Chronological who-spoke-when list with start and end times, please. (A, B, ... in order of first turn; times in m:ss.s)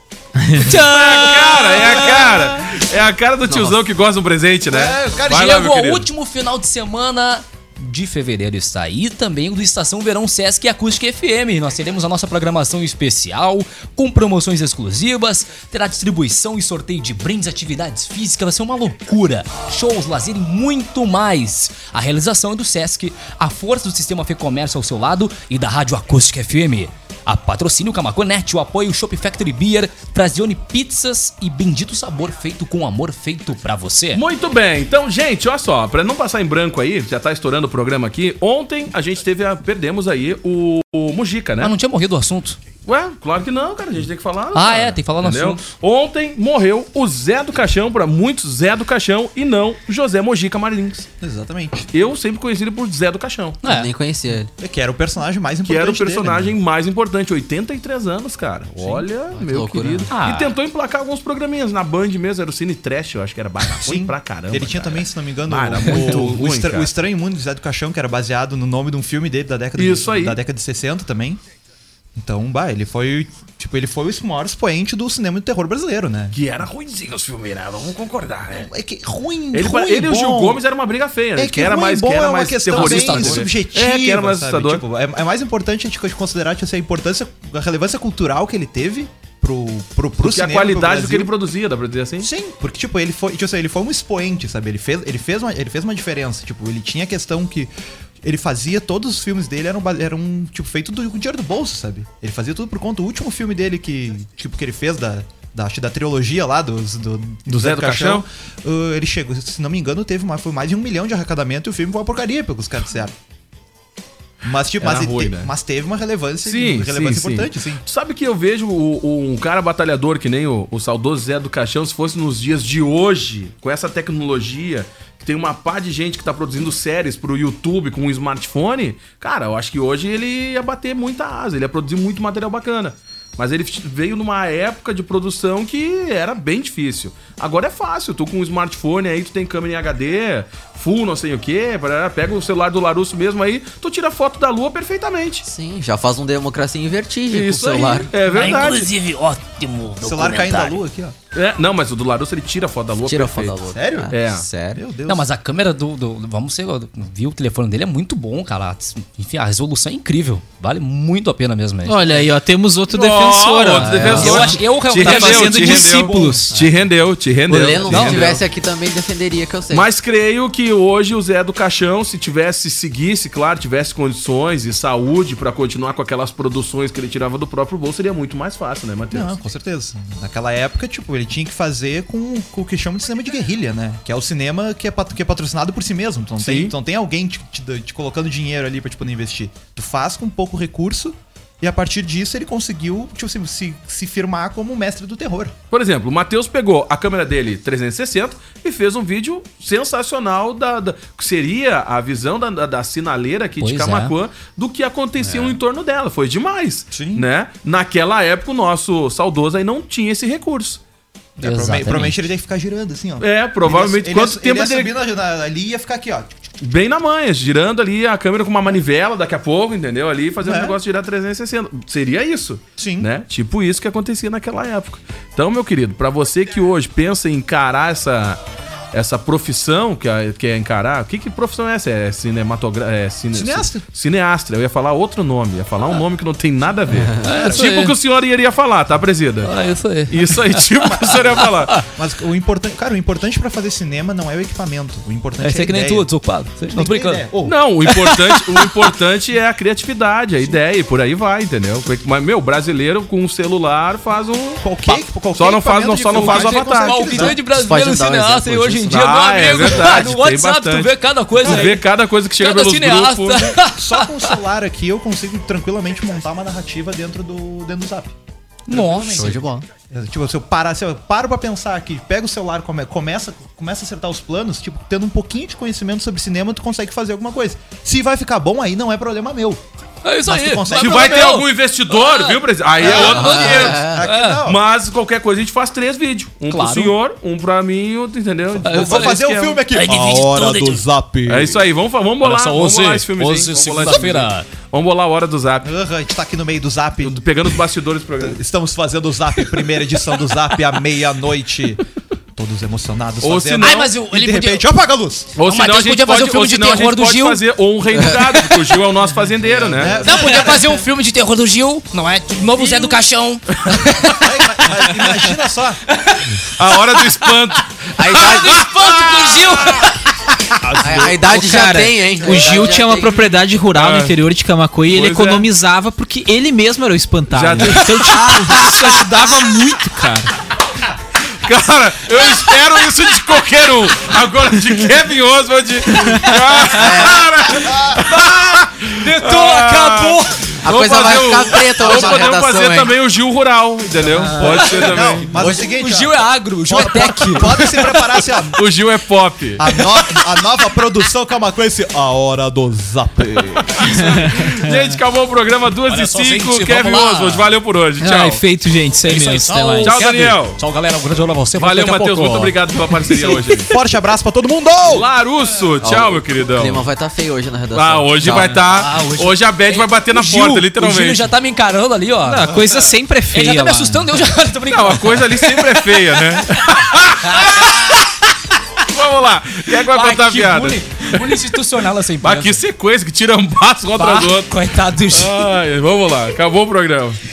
0:00.4-0:00.8 A
0:00.6-0:02.5 B
0:00.9-0:06.1 C
0:03.5-0:03.8 D
0:04.7-0:05.4 E
0:05.3-0:34.2 B
0:34.2-0:41.7 C
0:41.6-0:42.6 B
0:42.9-0:51.1 C
0:44.5-0:45.7 B
0:51.2-0:51.9 E
0:51.9-0:53.6 C
0:53.6-0:53.9 B
0:53.6-0:54.5 D
0:54.6-0:56.6 E
0:55.6-1:07.0 C
0:58.9-1:00.1 D
1:00.1-1:00.5 B
1:03.8-1:11.4 E
1:09.8-1:10.4 C
1:12.2-1:16.4 E
1:16.3-1:18.7 C
1:18.6-1:20.6 E
1:19.5-1:24.8 C
1:21.4-1:31.3 E
1:22.7-1:23.6 B
1:30.2-1:32.3 C
1:32.2-1:37.7 E
1:38.2-1:53.1 E
1:47.5-1:48.3 C
1:54.4-1:57.8 E
1:54.8-1:55.5 C
1:56.4-2:25.5 C
2:25.5-2:28.1 D
2:27.3-2:28.9 C
2:28.3-2:30.8 B
2:30.0-2:31.2 E
2:31.3-2:33.6 C
2:33.0-2:34.8 D
2:33.7-2:34.2 E
2:34.1-2:34.5 C
2:34.7-2:35.3 E
2:35.1-2:42.1 B
2:41.8-2:46.5 A
2:42.9-2:48.4 C
2:43.8-2:44.5 D
2:44.1-2:46.4 B
2:46.5-2:46.8 D
2:47.5-2:49.9 D
2:47.9-2:48.4 E
2:47.9-2:48.2 B
2:49.7-2:59.3 C
2:59.1-3:15.6 E
3:06.4-3:06.7 C
3:15.7-3:30.8 C
3:23.6-3:24.1 B
3:26.9-3:27.3 E
3:31.4-3:36.3 E
3:31.4-3:32.2 B
3:33.2-3:34.9 C
3:36.6-3:48.4 C
3:40.4-3:40.8 E
3:42.8-3:43.1 E
3:48.9-3:59.6 C
3:53.3-3:53.8 E
3:57.0-3:57.3 D
3:57.2-3:58.0 B
3:59.4-4:01.8 B
4:00.1-4:01.8 C
4:02.0-4:06.1 E
4:05.4-4:07.3 B
4:06.7-4:07.6 E
4:07.4-4:14.6 C
4:07.9-4:08.8 B
4:14.6-4:17.4 E
4:15.3-4:17.0 C
4:16.1-4:21.8 B
4:17.2-4:19.1 D
4:18.9-4:23.6 C
4:22.4-4:24.4 B
4:23.6-4:28.2 E
4:28.7-4:29.4 B
4:28.7-4:39.6 E
4:29.2-4:29.7 D
4:40.0-4:44.4 B
4:40.3-4:41.4 E
4:40.8-4:43.9 C
4:42.8-4:44.1 D
4:42.8-4:44.6 E
4:44.4-4:49.6 C
4:46.5-4:46.9 B
4:48.6-4:50.8 B
4:48.6-4:51.6 E
4:51.3-4:55.7 C
4:52.2-4:54.5 B
4:53.8-4:54.3 E
4:55.6-4:57.2 E
4:57.0-4:58.4 C
4:58.2-5:01.8 E
5:02.4-5:05.3 E
5:03.2-5:03.9 C
5:03.6-5:04.7 B
5:05.4-5:10.0 C
5:05.4-5:07.4 B
5:08.0-5:08.2 D
5:09.6-5:10.3 D
5:09.7-5:10.5 E
5:10.0-5:15.0 B
5:13.7-5:14.0 C
5:14.1-5:15.8 E
5:16.0-5:16.4 B
5:16.5-5:19.6 C
5:17.0-5:17.3 B
5:18.0-5:18.7 D
5:18.0-5:20.0 B
5:20.7-5:21.1 B
5:20.8-5:23.3 D
5:20.9-5:30.3 A
5:23.8-5:24.2 C
5:24.9-5:25.5 C
5:27.3-5:29.1 C
5:31.4-5:45.3 C
5:36.7-5:37.5 D
5:37.6-5:38.0 E
5:39.0-5:40.6 B
5:40.6-5:42.9 D
5:41.8-5:42.2 E
5:44.2-5:48.6 E
5:44.2-5:48.1 B
5:45.4-5:45.7 D
5:48.5-5:49.6 C
5:49.6-5:53.9 E
5:53.6-5:58.4 C
5:53.9-5:54.7 A
5:55.9-5:57.5 B
5:58.0-6:00.0 A
5:59.1-6:03.6 B
5:59.8-6:00.6 C
6:01.6-6:03.7 C
6:03.6-6:05.1 E
6:04.8-6:06.8 C
6:05.8-6:08.6 D
6:07.7-6:11.2 C
6:08.6-6:12.5 B
6:12.2-6:14.1 A
6:13.3-6:18.0 B
6:14.7-6:18.2 C
6:18.9-6:21.5 C
6:19.9-6:22.6 B
6:22.2-6:24.6 C
6:24.0-6:25.5 B
6:25.1-6:27.2 C